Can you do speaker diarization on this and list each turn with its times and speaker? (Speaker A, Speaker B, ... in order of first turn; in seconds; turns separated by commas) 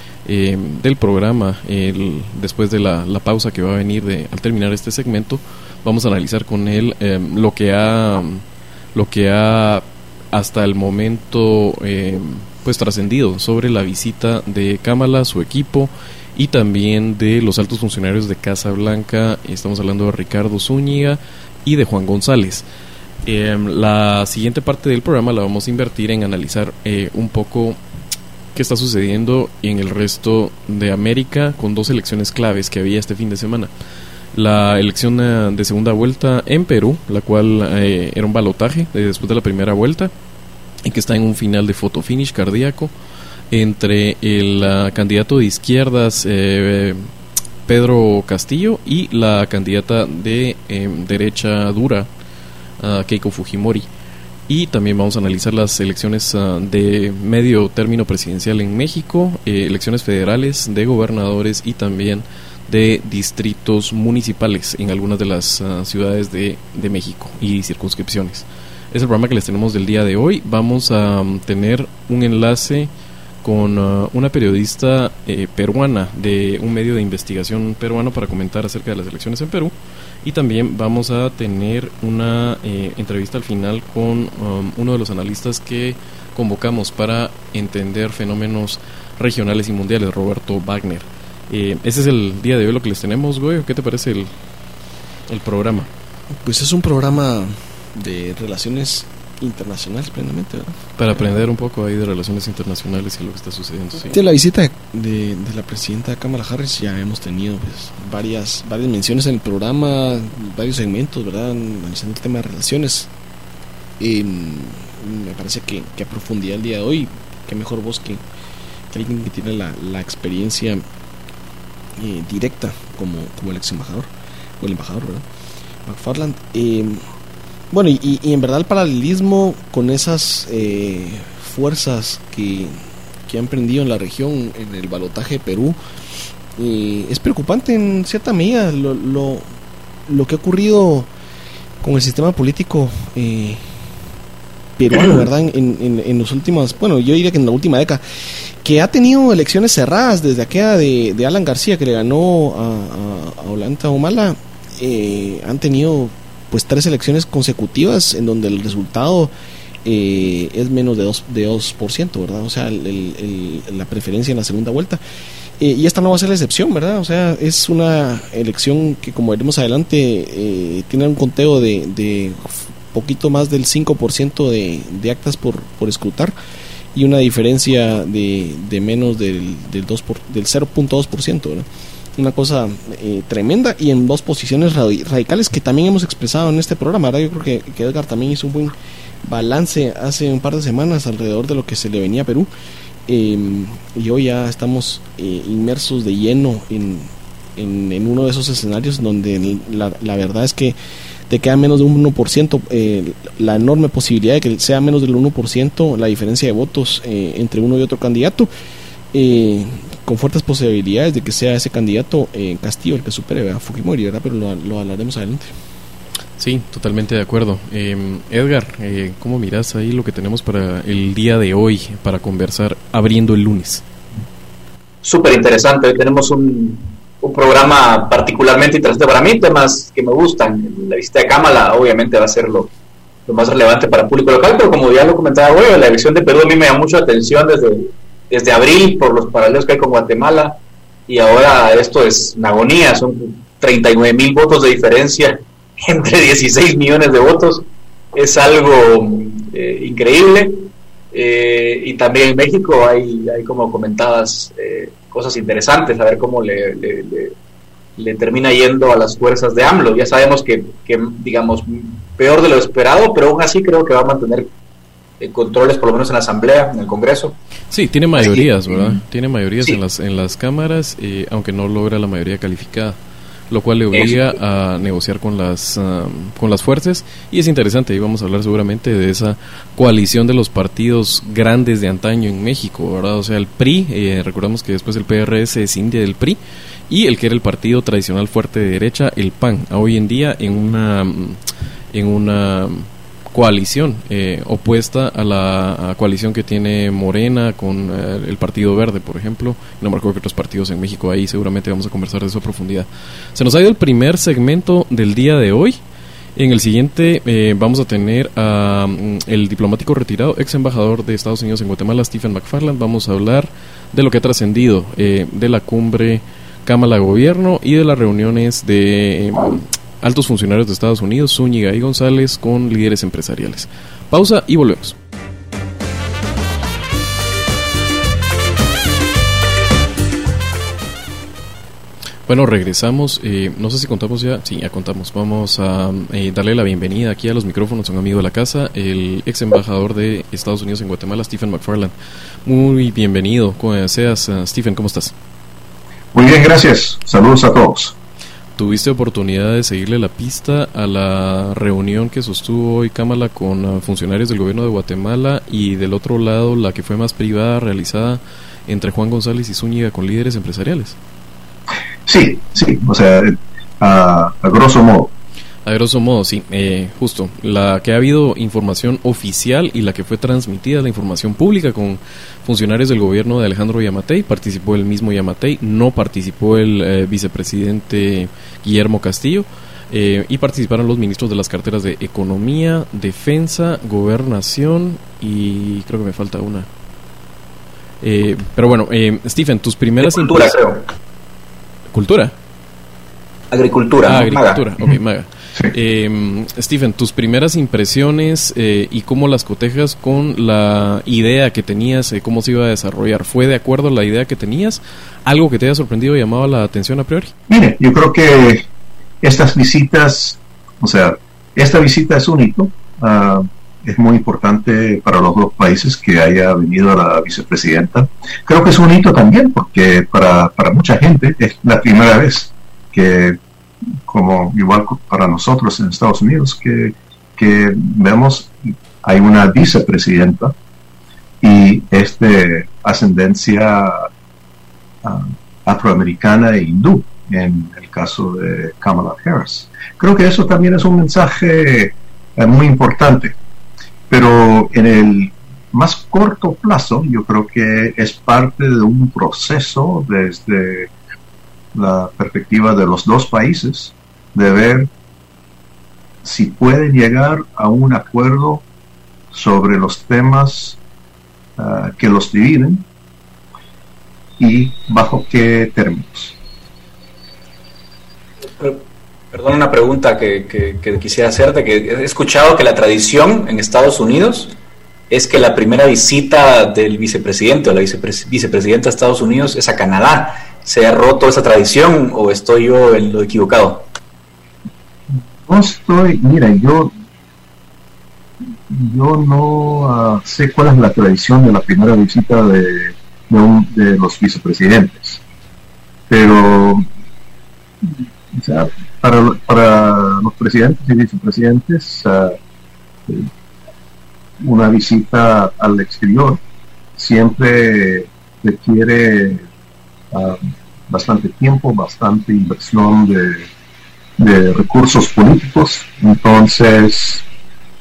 Speaker A: 0.2-8.4, Speaker A: 8.9-22.6, Speaker A: 23.2-27.8, Speaker A: 28.5-33.7, Speaker A: 34.3-40.1, Speaker A: 40.8-42.9, Speaker A: 43.5-47.0, Speaker A: 47.7-52.1, Speaker A: 52.8-53.9, Speaker A: 54.5-72.9, Speaker A: 73.4-94.3, Speaker A: 95.3-95.9, Speaker B: 96.4-100.8, Speaker A: 101.0-104.2, Speaker B: 104.0-113.1, Speaker B: 114.0-118.2, Speaker B: 118.9-120.8, Speaker B: 122.0-124.1, Speaker B: 124.6-125.2, Speaker B: 125.8-127.0, Speaker B: 127.7-135.8, Speaker B: 136.6-139.4, Speaker B: 140.1-141.1, Speaker B: 141.8-143.6, Speaker B: 144.8-148.0, Speaker B: 148.6-159.3, Speaker B: 159.8-165.0, Speaker B: 165.6-176.3, Speaker B: 176.9-192.5, Speaker B: 193.1-200.8, Speaker B: 201.3-208.5, Speaker B: 209.1-215.5, Speaker A: 216.4-223.8, Speaker C: 225.0-232.7, Speaker C: 233.3-240.6, Speaker C: 241.1-257.3, Speaker C: 258.0-264.5, Speaker C: 265.2-267.4, Speaker A: 267.7-273.0, Speaker C: 268.2-268.4, Speaker A: 273.5-291.4, Speaker C: 273.9-274.2, Speaker A: 291.9-305.8, Speaker A: 306.4-325.0, Speaker A: 332.3-341.9, Speaker A: 342.4-345.1, Speaker D: 346.1-347.9, Speaker A: 348.6-360.9, Speaker D: 362.1-365.1, Speaker A: 365.6-386.7, Speaker A: 388.0-390.5, Speaker C: 390.0-390.8, Speaker A: 391.9-392.3, Speaker C: 393.5-394.6, Speaker A: 394.0-407.3, Speaker D: 407.5-408.6, Speaker D: 409.2-423.4, Speaker D: 424.1-430.5, Speaker D: 431.4-434.1, Speaker D: 435.0-443.4, Speaker D: 444.1-450.9, Speaker D: 451.7-454.9, Speaker D: 456.2-458.6, Speaker D: 459.3-460.8, Speaker D: 461.6-462.8, Speaker D: 464.4-466.3, Speaker C: 469.3-474.5, Speaker C: 475.1-483.9, Speaker D: 485.1-486.9, Speaker D: 488.7-495.2, Speaker D: 496.1-496.8, Speaker D: 497.8-502.4, Speaker D: 504.4-506.4, Speaker D: 507.0-509.4, Speaker D: 510.1-513.5, Speaker D: 514.2-517.2